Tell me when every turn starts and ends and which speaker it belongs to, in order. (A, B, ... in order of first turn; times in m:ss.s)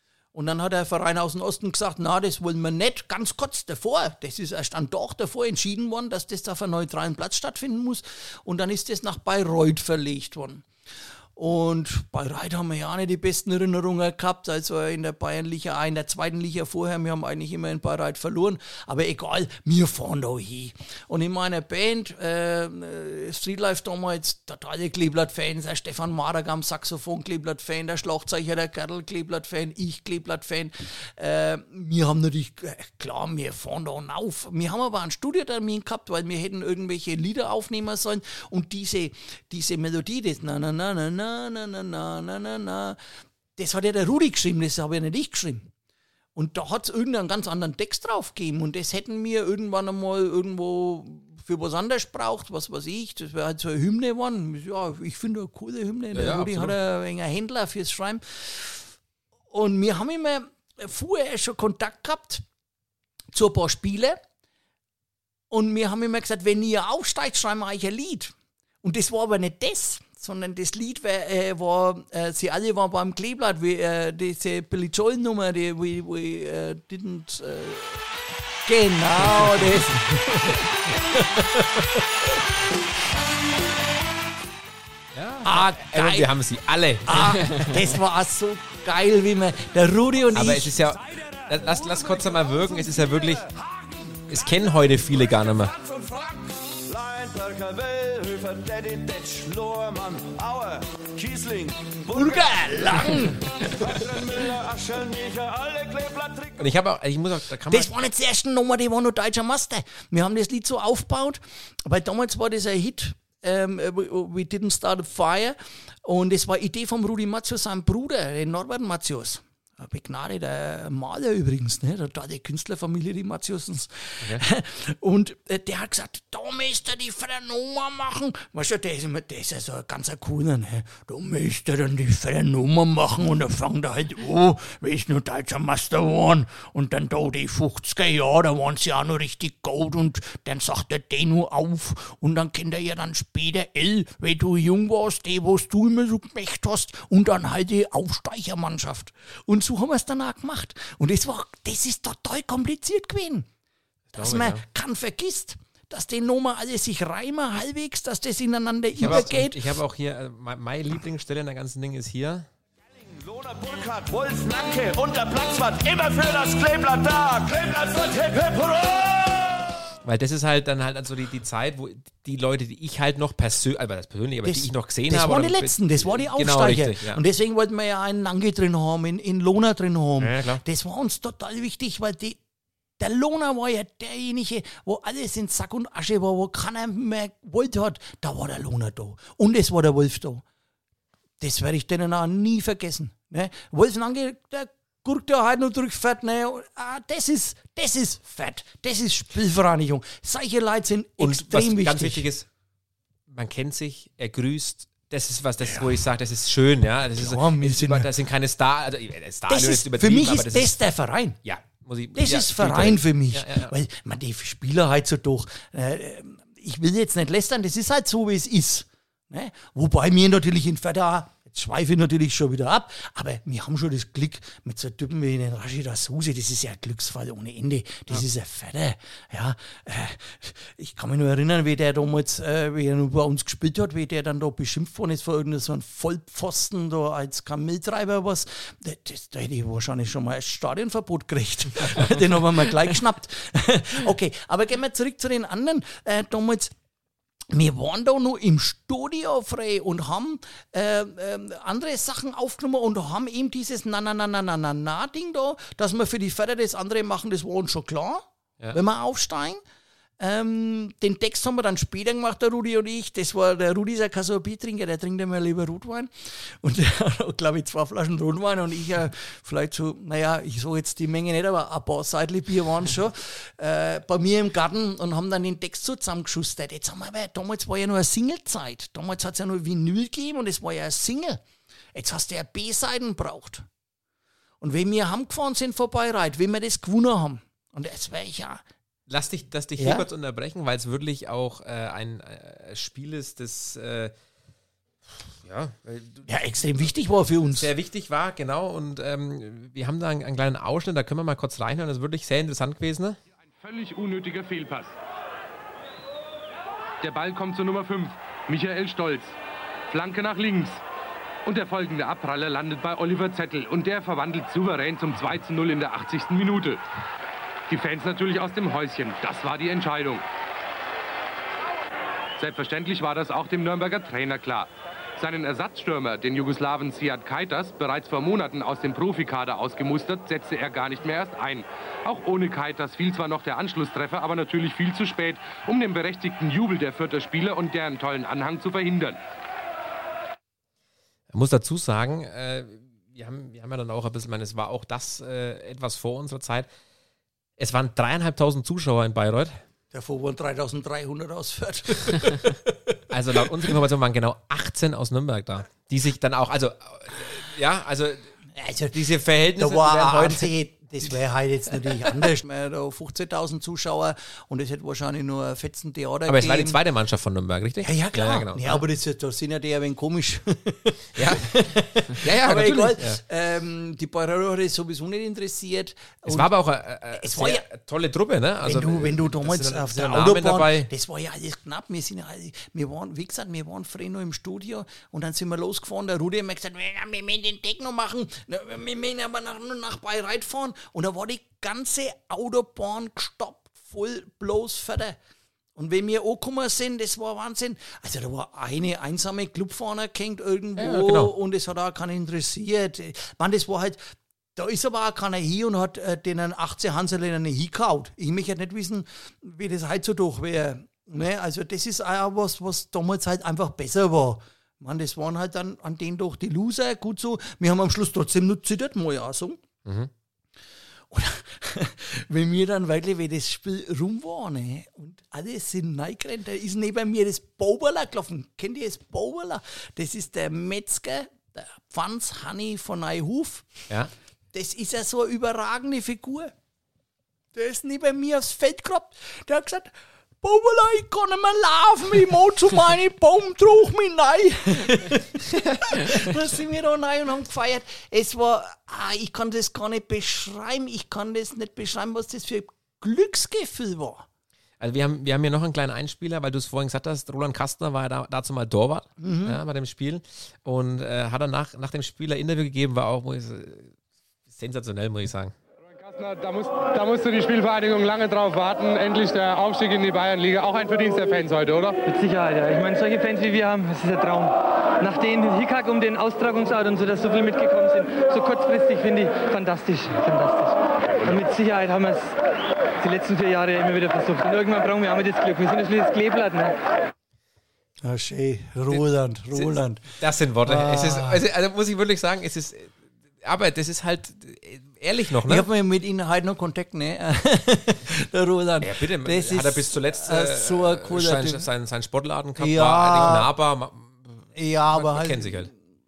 0:00.3-0:10.6 A
0:11.4-0:43.0 A
0:43.6-0:45.7 A
0:46.3-0:58.9 A
0:56.1-0:56.8 B
0:59.5-1:02.4 A
1:03.3-1:04.2 A
1:05.5-1:18.1 A
1:18.6-1:21.9 A
1:25.1-1:27.7 B
1:25.4-1:26.3 A
1:27.1-1:30.7 A
1:30.3-1:33.4 B
1:31.1-1:33.5 C
1:34.3-1:35.7 B
1:35.5-1:46.7 C
1:42.1-1:43.5 A
1:46.6-1:47.9 B
1:47.7-2:33.5 A
2:34.1-2:34.6 B
2:34.1-2:39.7 A
2:39.0-2:42.5 B
2:43.1-2:49.6 C
2:50.0-2:57.2 B
2:54.4-3:02.4 A
3:00.2-3:00.6 B
3:03.0-3:10.4 A
3:11.4-3:22.2 A
3:21.2-3:22.5 B
3:23.3-3:30.7 B
3:25.6-3:25.9 A
3:27.2-3:28.1 A
3:29.5-3:31.4 A
3:31.4-3:33.8 B
3:32.2-4:06.7 A
4:07.5-4:19.6 A
4:20.2-4:41.4 A
4:41.9-4:43.6 A
4:44.6-4:48.6 A
4:49.1-4:54.1 B
4:49.8-4:50.1 A
4:55.2-4:56.3 B
4:56.2-4:57.7 A
4:57.5-5:03.2 B
5:03.6-5:04.9 D
5:07.0-5:09.3 D
5:09.9-5:10.8 D
5:11.4-5:16.8 D
5:17.7-5:20.2 D
5:22.4-5:39.2 D
5:41.3-5:46.7 B
5:47.6-5:49.6 B
5:49.9-5:53.0 A
5:53.1-5:58.3 B
5:58.6-6:06.8 A
5:58.9-6:00.5 B
6:06.3-6:08.8 B
6:07.8-6:16.5 A
6:11.1-6:13.2 B
6:16.2-6:20.9 B
6:17.2-6:17.6 A
6:18.6-6:35.2 A
6:35.8-6:44.0 A
6:40.8-6:41.3 B
6:44.6-6:59.6 A
6:59.8-7:00.1 B
7:01.1-7:13.9 A
7:14.5-7:16.5 A
7:17.5-7:34.2 A
7:34.8-7:43.9 B
7:39.2-7:39.6 A
7:44.5-7:45.5 B
7:45.9-7:52.0 D
7:52.0-8:02.4 E
8:03.0-8:06.8 E
8:08.0-8:11.4 A
8:09.5-8:15.7 B
8:15.4-8:21.7 A
8:18.8-8:25.7 B
8:22.6-8:23.5 A
8:24.5-8:25.7 A